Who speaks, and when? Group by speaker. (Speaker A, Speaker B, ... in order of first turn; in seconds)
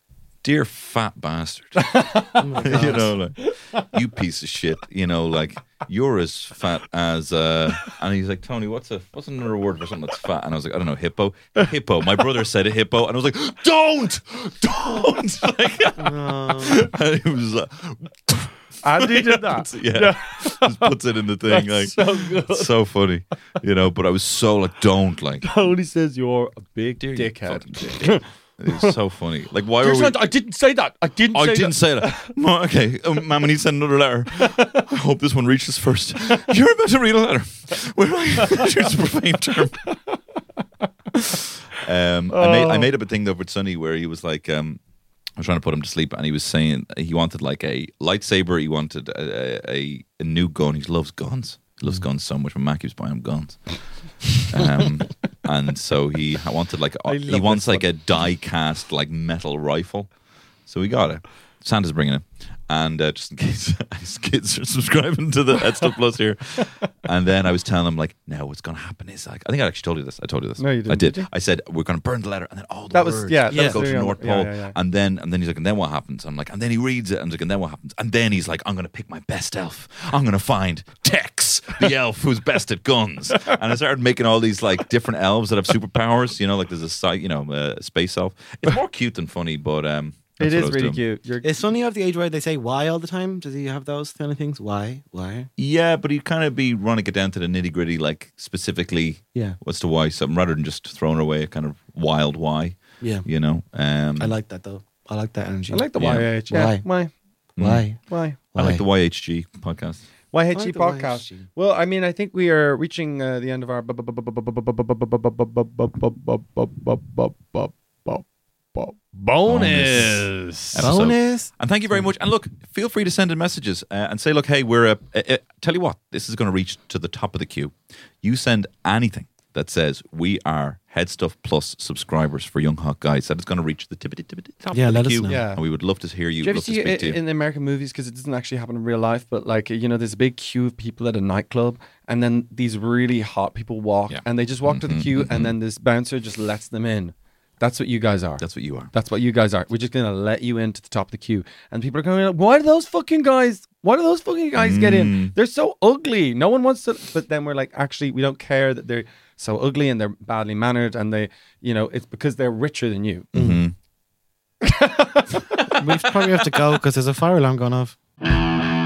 Speaker A: 0.4-2.0, 2.6-25.5, 27.0-30.3, 31.3-39.8, 41.7-44.8, 45.4-60.1, 60.7-91.0, 95.6-104.3, 106.0-106.3, 107.6-110.0, 119.5-137.2, 144.1-145.5, 148.4-148.9, 154.6-155.3, 163.3-163.7
Speaker B: 1.8-2.8, 3.4-3.8, 18.8-20.9, 21.5-22.7, 25.4-28.9, 29.8-32.2, 34.4-34.8, 39.8-40.2, 42.3-42.9, 57.1-57.8, 70.6-71.3, 72.9-74.7, 90.4-91.5, 105.7-107.1, 108.1-108.4, 110.3-120.8, 135.3-135.6, 136.4-163.3, 164.6-166.0
Speaker C: 2.4-3.1, 16.0-16.8, 73.5-73.9, 91.4-95.5, 103.0-103.2, 104.2-106.8, 107.6-108.0, 108.5-108.8, 110.5-111.5, 120.8-122.0, 134.7-135.4, 163.3-163.6, 165.7-167.9